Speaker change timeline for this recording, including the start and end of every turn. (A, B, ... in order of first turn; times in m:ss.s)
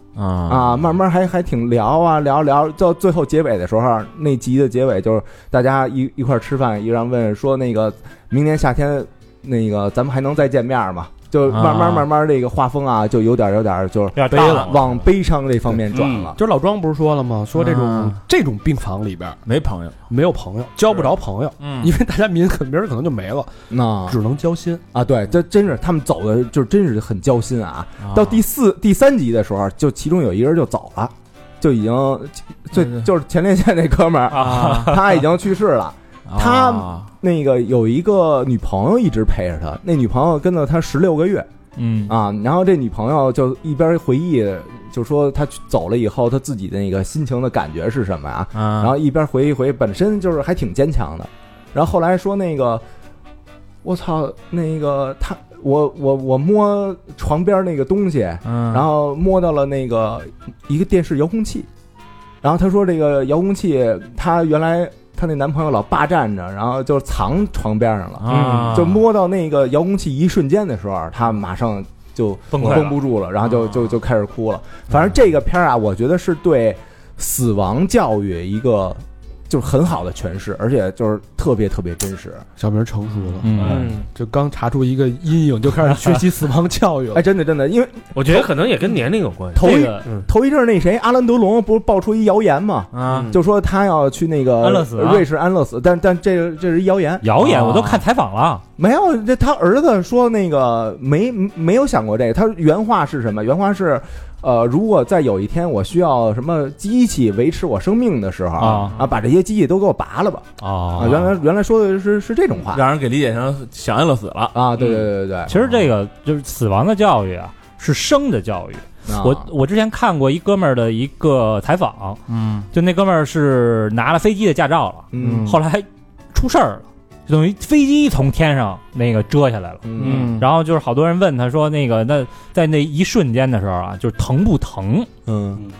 0:00.2-0:00.5 A
0:00.5-0:16.4 B
0:14.1-0:14.9 C
0:14.3-0:14.7 D
0:16.3-0:19.4 D
0:17.8-0:18.1 A
0:19.5-0:19.9 A
0:20.1-0:23.5 D
0:21.6-0:21.9 E
0:23.7-0:24.2 B
0:24.1-0:24.8 D
0:24.9-0:41.5 B
0:34.3-0:35.1 C
0:36.3-0:37.0 A
0:41.8-0:42.1 C
0:42.1-0:52.8 B
0:53.8-1:01.7 B
1:02.4-1:22.5 B
1:08.3-1:08.9 E
1:12.5-1:13.0 C
1:22.6-1:27.2 D
1:23.4-1:24.0 E
1:23.6-1:24.1 F
1:27.1-1:28.5 B
1:28.1-1:30.3 F
1:29.5-1:37.3 B
1:29.6-1:30.0 C
1:33.0-1:33.2 E
1:33.0-1:33.4 F
1:34.6-1:35.2 C
1:37.2-1:38.6 C
1:38.8-1:52.8 B
1:48.6-1:48.9 C
1:50.6-1:51.2 C
1:52.8-1:54.5 A
1:54.5-1:55.6 B
1:55.5-2:02.2 C
1:59.0-1:59.5 B
2:02.3-2:02.6 E
2:02.7-2:09.8 C
2:05.1-2:05.5 B
2:05.2-2:05.6 E
2:09.8-2:10.4 B
2:10.0-2:10.4 E
2:10.4-2:15.1 C
2:15.2-2:15.6 B